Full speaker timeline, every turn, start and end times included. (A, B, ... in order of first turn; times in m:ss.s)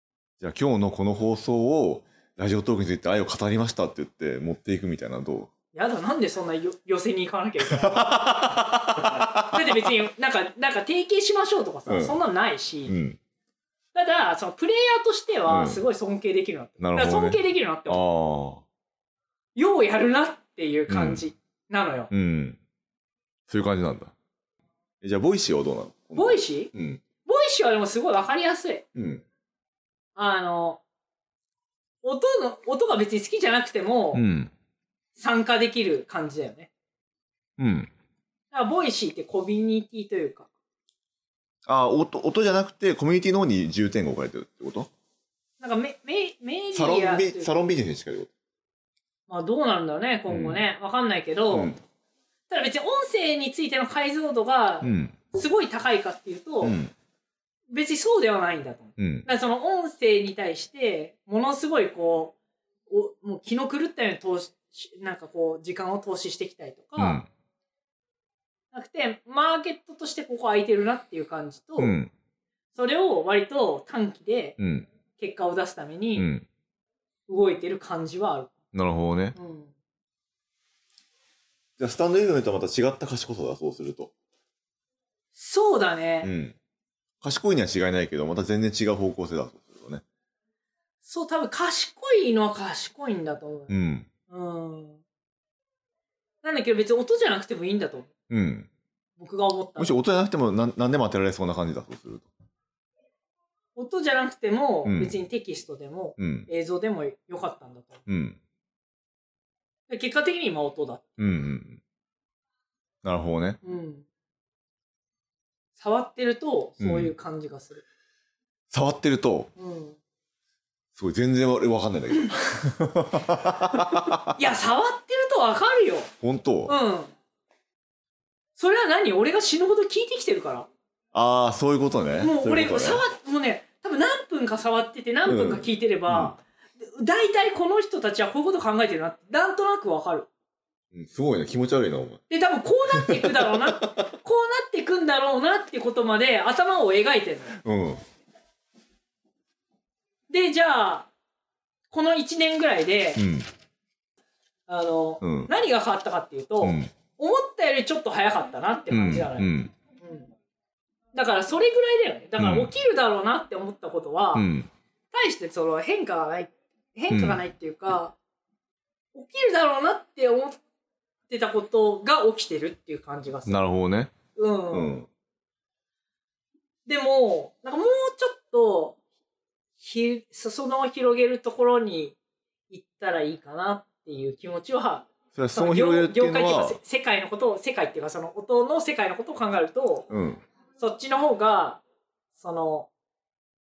0:00.4-0:05.5 A
0:05.7-0:08.3 B
0:07.7-0:09.7 A
0:09.4-0:12.9 B
0:11.9-0:12.2 A
0:12.8-0:13.2 A
0:13.9-0:18.0 B
0:15.5-0:15.8 A
0:16.8-0:18.6 A
0:19.6-0:22.1 B
0:20.9-0:21.2 A
0:22.1-0:22.6 A
0:23.5-0:24.1 A
0:25.0-0:27.0 A
0:26.1-0:26.7 B
0:27.2-0:28.8 B
0:28.9-0:29.2 A
0:30.2-0:30.8 B
0:32.0-0:34.2 B
0:34.1-0:34.5 A
0:35.2-0:36.7 B
0:37.6-0:37.9 A
0:38.5-0:40.5 B
0:41.6-0:44.9 A
0:45.6-0:47.5 B
0:46.7-0:48.3 A
0:49.3-0:51.8 B
0:50.3-0:50.6 A
0:51.5-0:51.8 A
0:52.5-0:56.8 B
0:54.8-0:55.2 A
0:56.6-0:56.9 A
0:57.7-1:02.3 B
0:59.0-0:59.3 A
1:02.9-1:07.2 B
1:07.0-1:07.3 A
1:08.7-1:12.0 B
1:11.8-1:12.1 A
1:12.7-1:14.6 B
1:14.6-1:14.9 A
1:15.2-1:16.3 B
1:16.2-1:16.4 A
1:17.3-1:18.5 B
1:18.7-1:19.4 A
1:19.3-1:19.7 B
1:21.8-1:24.1 A
1:25.3-1:26.3 B
1:26.2-1:26.6 A
1:27.2-1:30.0 A
1:31.0-1:33.7 B
1:33.7-1:34.1 A
1:34.3-1:35.0 B
1:36.4-1:38.1 B
1:38.3-1:38.7 A
1:39.2-1:40.0 B
1:39.8-1:42.3 A
1:43.8-1:48.0 B
1:44.8-1:45.1 A
1:46.2-1:46.5 A
1:48.1-1:48.4 A
1:49.9-1:51.2 B
1:51.2-1:51.8 A
1:53.0-1:53.6 A
1:53.6-1:54.0 B
1:55.8-1:57.8 B
1:56.8-1:57.1 A
1:58.7-1:59.5 A
1:59.6-2:00.0 B
2:00.9-2:04.3 A
2:04.3-2:06.1 B
2:06.2-2:06.7 A
2:06.7-2:07.1 B
2:08.6-2:10.7 B
2:11.1-2:13.0 A
2:12.2-2:20.3 B
2:15.2-2:16.3 A
2:20.9-2:22.2 A
2:22.3-2:27.6 B
2:22.9-2:24.1 A
2:27.6-2:28.0 A
2:30.3-2:31.1 B
2:31.9-2:33.2 B
2:33.2-2:33.5 A
2:34.7-2:39.5 B
2:35.2-2:35.5 A
2:36.6-2:36.9 A
2:38.9-2:39.7 A
2:40.0-2:40.3 B
2:41.1-2:44.5 B
2:42.4-2:42.7 A
2:44.3-2:44.7 A
2:45.1-2:48.1 B
2:47.1-2:47.4 A
2:49.1-2:50.6 B
2:51.3-2:53.6 B
2:53.5-2:54.1 A
2:54.4-2:54.9 B
2:54.7-2:55.1 A
2:56.8-2:59.0 B
2:59.8-3:02.1 B
3:02.7-3:10.1 B
3:05.3-3:06.8 A
3:10.1-3:10.4 A
3:10.8-3:11.8 B
3:12.3-3:12.9 B